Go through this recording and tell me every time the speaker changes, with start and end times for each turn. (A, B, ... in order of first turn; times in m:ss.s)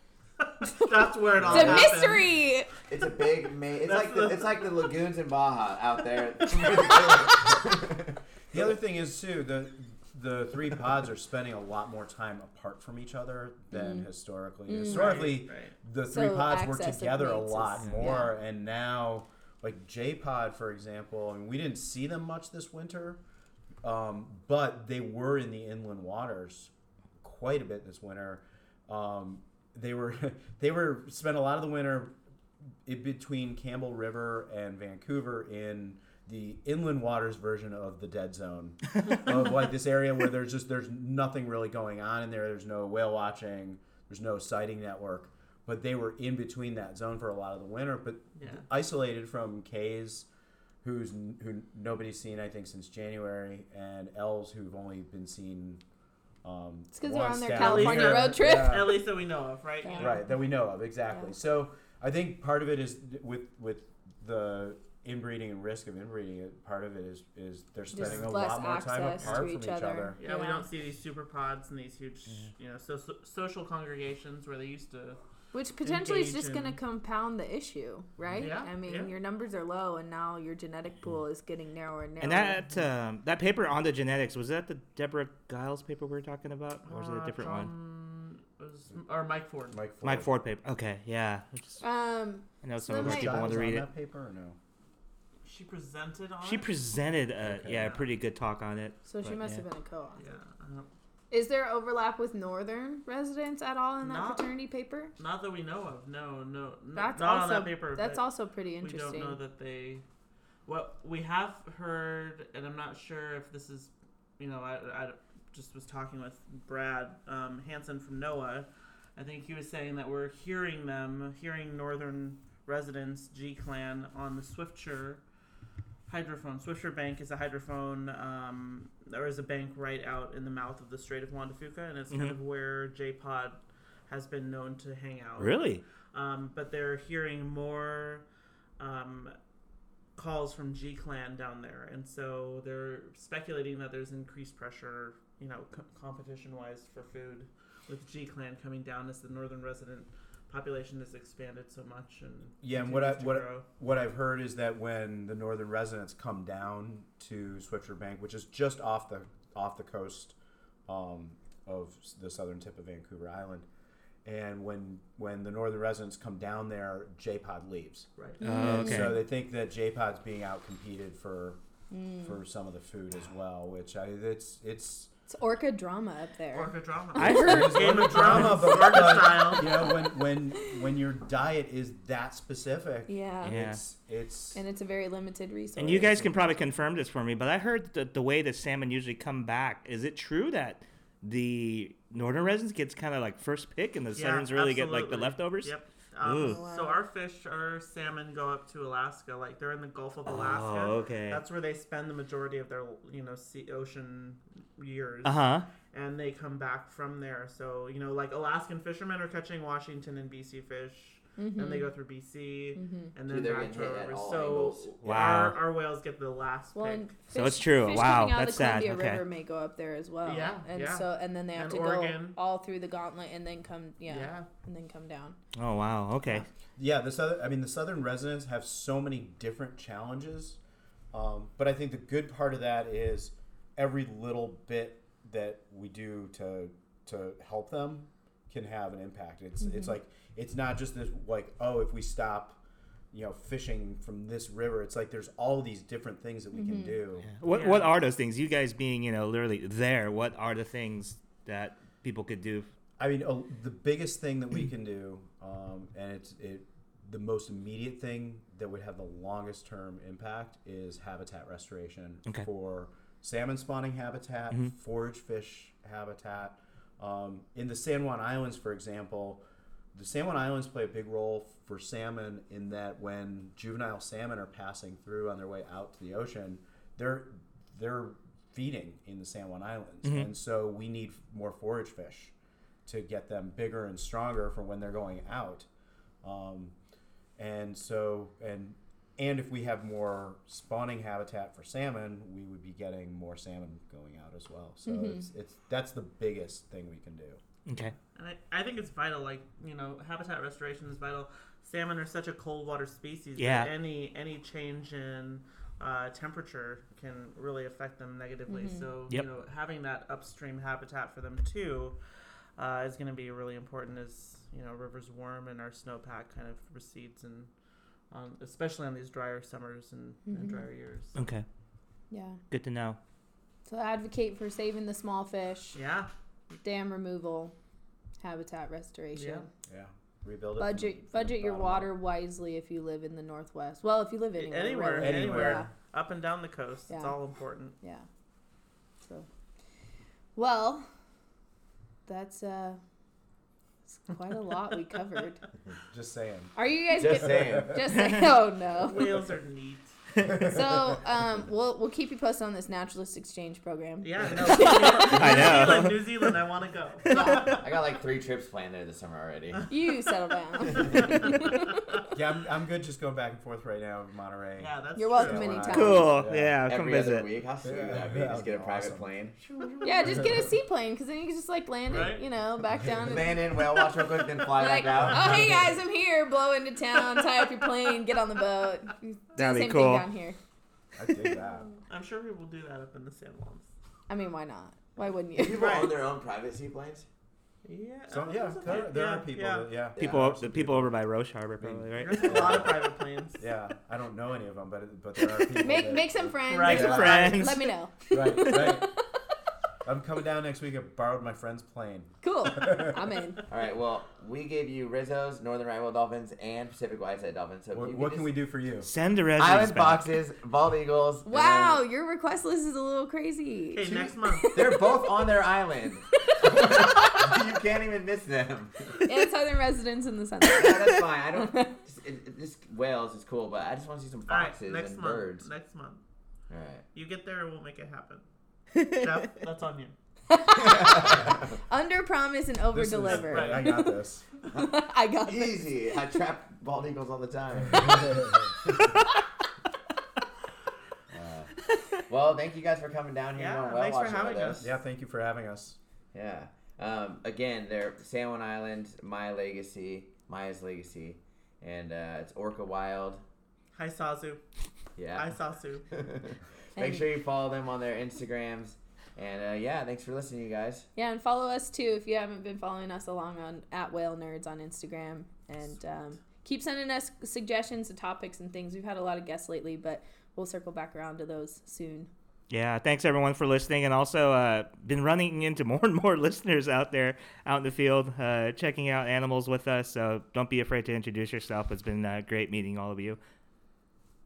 0:00.4-0:02.3 A
0:01.4-0:01.9 B
0:01.4-0:02.7 C
0:02.9-0:08.2 B
0:03.8-0:04.9 A
0:06.9-0:07.2 C
0:08.5-0:23.2 D
0:13.7-0:14.1 C
0:14.7-0:15.4 C
0:14.8-0:15.7 A
0:16.1-0:18.3 C
0:23.8-0:26.7 D
0:27.2-0:32.1 D
0:32.8-0:50.3 D
0:48.4-0:48.6 A
0:50.8-0:55.8 D
0:56.4-0:59.0 D
0:56.9-0:59.0 C
0:57.5-1:00.3 A
0:59.8-1:00.2 C
1:00.0-1:10.2 D
1:07.9-1:10.7 C
1:08.0-1:08.3 A
1:10.2-1:15.2 A
1:15.5-1:22.8 C
1:15.8-1:16.8 A
1:18.4-1:19.1 A
1:22.2-1:27.7 E
1:26.8-1:29.8 A
1:29.7-1:30.3 D
1:30.0-1:31.8 E
1:31.8-1:33.6 C
1:32.6-1:33.8 E
1:33.0-1:34.6 D
1:35.4-1:36.7 A
1:36.4-1:39.6 E
1:37.4-1:38.0 D
1:39.0-1:40.2 C
1:40.2-1:40.9 A
1:41.3-1:45.1 C
1:44.0-1:44.4 A
1:45.2-1:48.2 A
1:46.9-1:49.4 C
1:48.8-1:50.0 A
1:50.6-2:05.2 A
2:06.1-2:15.6 A
2:15.4-2:15.8 E
2:16.1-2:18.2 A
2:18.8-2:19.3 A
2:20.2-2:33.6 A
2:32.6-2:40.4 D
2:40.9-2:43.6 D
2:44.2-2:48.1 D
2:48.4-2:49.2 C
2:48.4-2:49.2 E
2:48.6-2:51.6 D
2:51.9-2:52.3 C
2:52.2-2:55.1 D
2:55.3-2:58.8 C
2:56.5-2:59.8 A
2:57.2-2:58.6 E
2:57.2-3:04.6 D
2:59.4-3:00.7 C
3:03.1-3:03.5 C
3:03.4-3:03.8 E
3:04.5-3:06.2 C
3:05.8-3:16.6 E
3:05.8-3:06.5 D
3:14.1-3:25.4 A
3:16.3-3:17.0 C
3:20.2-3:21.4 E
3:25.2-3:25.6 E
3:25.9-3:37.1 A
3:31.4-3:31.9 C
3:32.8-3:33.1 C
3:33.2-3:35.2 B
3:35.0-3:35.6 E
3:36.7-3:45.4 C
3:37.3-3:39.2 E
3:40.2-3:42.4 A
3:44.0-3:44.5 A
3:45.5-3:46.4 E
3:46.8-3:50.6 D
3:51.1-4:02.6 D
3:59.6-4:00.0 C
4:03.1-4:07.3 D
4:06.5-4:07.0 C
4:07.2-4:12.7 E
4:07.4-4:07.9 A
4:13.0-4:29.4 D
4:29.9-4:42.3 D
4:42.8-4:45.7 D
4:46.2-4:46.7 D
4:47.4-4:57.4 D
4:54.8-4:55.2 C
4:57.6-4:57.9 E
4:58.1-5:12.0 A
5:03.4-5:03.7 E
5:08.5-5:08.8 C
5:12.6-5:17.5 A
5:18.1-5:21.2 A
5:20.3-5:20.6 C
5:21.1-5:21.4 E
5:22.1-5:22.4 C
5:22.5-5:23.0 E
5:23.6-5:25.8 C
5:25.7-5:26.1 A
5:26.6-5:27.5 C
5:28.2-5:29.4 C
5:29.1-5:29.4 A
5:29.7-5:31.9 D
5:30.6-5:35.7 C
5:34.4-5:37.8 A
5:35.0-5:35.7 D
5:36.9-5:37.2 C
5:37.8-5:38.0 C
5:39.0-5:39.3 C
5:40.4-5:40.9 C
5:42.0-5:42.8 C
5:43.9-5:45.4 C
5:45.9-5:47.8 D
5:46.5-5:49.2 C
5:46.9-5:47.9 B
5:48.0-5:48.3 E
5:48.8-5:49.9 A
5:50.2-5:51.0 D
5:50.4-5:55.9 C
5:54.0-5:57.6 A
5:55.0-5:56.0 E
5:57.0-5:57.6 E
5:57.1-5:57.6 C
5:57.4-5:59.7 B
5:59.7-6:01.8 C
6:02.1-6:06.6 D
6:04.6-6:05.8 A
6:05.0-6:06.2 C
6:05.7-6:07.3 E
6:06.6-6:10.5 B
6:07.6-6:09.2 D
6:09.8-6:13.9 C
6:10.1-6:10.4 D
6:11.9-6:12.2 A
6:13.0-6:15.6 B
6:14.5-6:20.4 C
6:14.9-6:15.6 D
6:19.4-6:20.1 E
6:20.9-6:21.7 D
6:21.9-6:23.7 A
6:24.1-6:25.8 C
6:25.3-6:27.1 B
6:25.5-6:26.0 A
6:27.6-6:29.7 A
6:28.1-6:31.0 D
6:30.0-6:30.3 B
6:30.0-6:32.7 E
6:31.6-6:32.8 D
6:32.0-6:33.4 A
6:33.4-6:37.3 D
6:35.6-6:39.0 C
6:36.5-6:37.3 A
6:36.6-6:37.8 E
6:38.1-6:38.9 D
6:38.3-6:38.6 E
6:39.8-6:43.0 D
6:42.2-6:43.4 C
6:43.5-6:48.3 B
6:47.7-6:48.9 D
6:48.8-6:50.0 E
6:49.4-6:51.8 B
6:51.2-6:54.8 C
6:53.7-6:54.6 A
6:54.5-6:59.0 B
6:56.3-6:57.3 C
6:59.0-7:01.7 C
7:00.5-7:05.5 B
7:04.3-7:06.0 A
7:06.5-7:06.8 B
7:06.9-7:08.2 A
7:08.7-7:09.1 E
7:08.9-7:09.9 A
7:10.3-7:13.9 C
7:10.5-7:11.5 B
7:12.7-7:14.2 D
7:13.0-7:13.8 A
7:14.5-7:15.6 C
7:15.2-7:18.2 B
7:21.1-7:21.5 B
7:22.1-7:24.7 B
7:23.4-7:24.7 A
7:24.6-7:25.8 D
7:26.1-7:33.2 B
7:33.7-7:34.4 A
7:35.0-7:35.3 B
7:35.1-7:35.8 A
7:35.9-7:40.9 B
7:36.8-7:37.0 C
7:41.0-7:52.1 C
7:52.5-8:03.2 E